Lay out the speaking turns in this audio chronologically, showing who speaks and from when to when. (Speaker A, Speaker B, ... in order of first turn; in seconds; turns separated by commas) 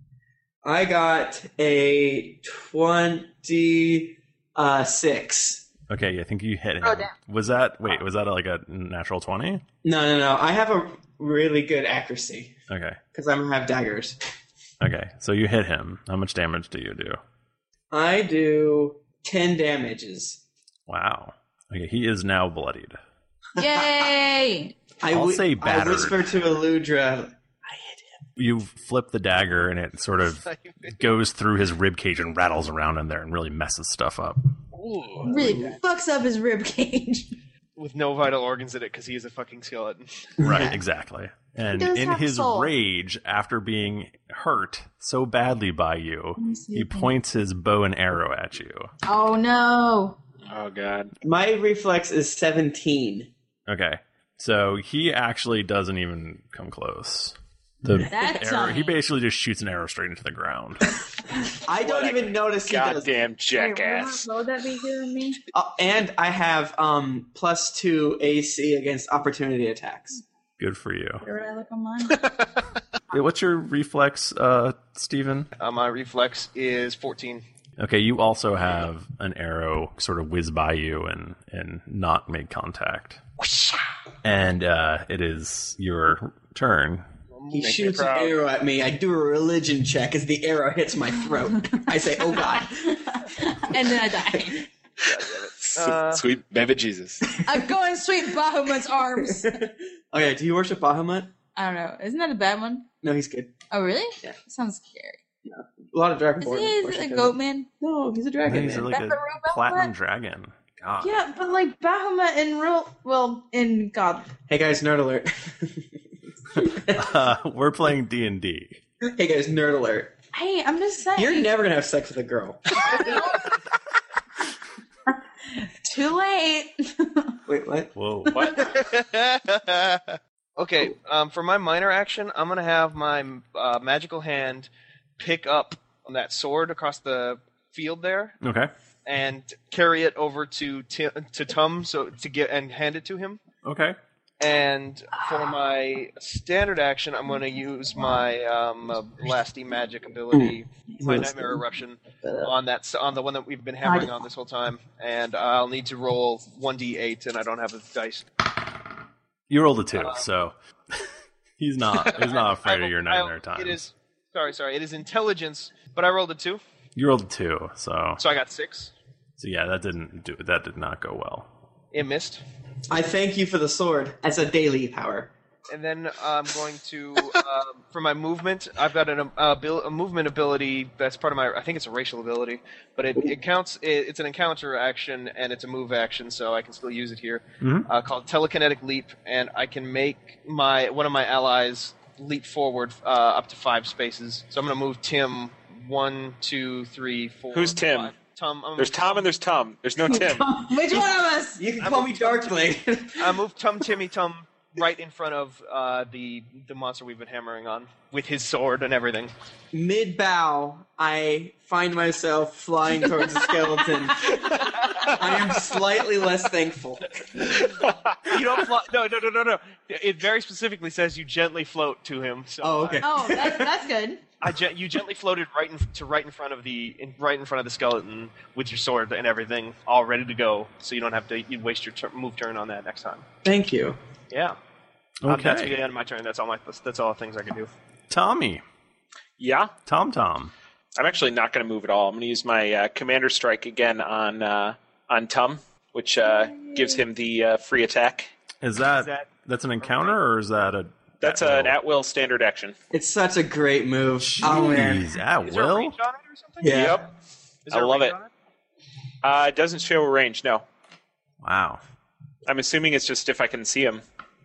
Speaker A: 0.6-5.7, Speaker B: 5.9-9.6, Speaker C: 6.8-7.1, Speaker A: 9.8-12.6, Speaker B: 12.7-13.0, Speaker A: 13.1-14.2, Speaker B: 14.8-17.2, Speaker A: 17.9-20.4, Speaker B: 20.9-23.0, Speaker C: 23.6-24.7, Speaker A: 25.0-28.1, Speaker B: 25.1-26.2, Speaker B: 28.4-34.4, Speaker D: 30.4-30.9, Speaker D: 34.7-35.7, Speaker C: 35.2-37.3, Speaker A: 35.3-35.6, Speaker D: 37.8-40.3, Speaker A: 40.4-40.7, Speaker B: 40.4-48.9, Speaker C: 41.7-42.7, Speaker C: 46.4-47.1, Speaker C: 49.0-50.2, Speaker E: 50.5-51.1, Speaker A: 51.2-53.3, Speaker B: 53.7-60.9, Speaker C: 58.1-58.9, Speaker A: 61.6-63.1, Speaker E: 61.8-64.2, Speaker C: 63.5-65.4, Speaker A: 65.5-70.2, Speaker B: 70.6-71.2, Speaker C: 71.2-72.3, Speaker B: 73.1-75.5, Speaker D: 75.6-77.4, Speaker B: 77.8-83.2, Speaker D: 83.4-83.8, Speaker B: 84.2-87.0, Speaker D: 87.3-88.3, Speaker A: 87.5-93.0, Speaker E: 87.6-88.4, Speaker C: 92.8-94.6, Speaker D: 95.0-96.2, Speaker E: 95.0-97.2, Speaker C: 97.4-99.6, Speaker A: 99.5-101.3, Speaker C: 101.5-102.9, Speaker A: 103.0-103.5, Speaker C: 103.7-105.2, Speaker A: 105.4-109.0, Speaker C: 106.4-107.7, Speaker B: 108.4-111.1, Speaker C: 108.9-109.9, Speaker C: 111.0-114.3, Speaker A: 114.5-115.8, Speaker A: 116.5-117.2, Speaker B: 116.9-118.8, Speaker A: 119.1-120.1, Speaker C: 120.3-121.5, Speaker A: 121.2-123.4, Speaker C: 125.1-127.4, Speaker A: 127.5-127.9, Speaker B: 128.0-128.5, Speaker D: 128.6-138.4, Speaker B: 138.4-138.7, Speaker D: 139.1-143.4, Speaker B: 143.6-144.0, Speaker D: 144.4-158.2, Speaker A: 150.3-151.6, Speaker B: 159.5-161.1, Speaker D: 159.9-160.2, Speaker B: 161.6-163.8, Speaker D: 162.0-166.6, Speaker B: 166.9-168.2, Speaker D: 168.2-168.9, Speaker B: 169.4-171.5, Speaker D: 171.9-172.4, Speaker A: 172.9-175.3, Speaker D: 175.7-199.3, Speaker B: 187.6-187.9, Speaker E: 197.5-198.1, Speaker E: 198.8-200.5, Speaker C: 200.1-201.6, Speaker A: 201.6-203.3, Speaker D: 201.8-202.6, Speaker D: 203.2-209.3, Speaker A: 209.7-217.2, Speaker E: 217.6-218.4, Speaker D: 218.2-223.0, Speaker A: 222.6-223.7, Speaker C: 223.0-224.2, Speaker D: 224.4-233.2, Speaker A: 233.4-234.0, Speaker D: 234.3-234.6, Speaker B: 235.2-235.8, Speaker D: 235.3-237.7, Speaker B: 238.1-238.6, Speaker E: 239.4-239.7, Speaker B: 239.8-240.5, Speaker E: 241.0-248.3, Speaker C: 246.2-247.0, Speaker B: 248.6-251.8, Speaker D: 248.8-250.2, Speaker E: 251.2-252.7, Speaker A: 252.9-255.1, Speaker B: 254.2-256.0, Speaker D: 254.5-257.0, Speaker A: 256.6-257.0, Speaker E: 256.6-257.0, Speaker D: 257.6-258.3, Speaker E: 257.7-258.1, Speaker E: 259.2-260.6, Speaker B: 261.4-261.8, Speaker E: 262.4-264.0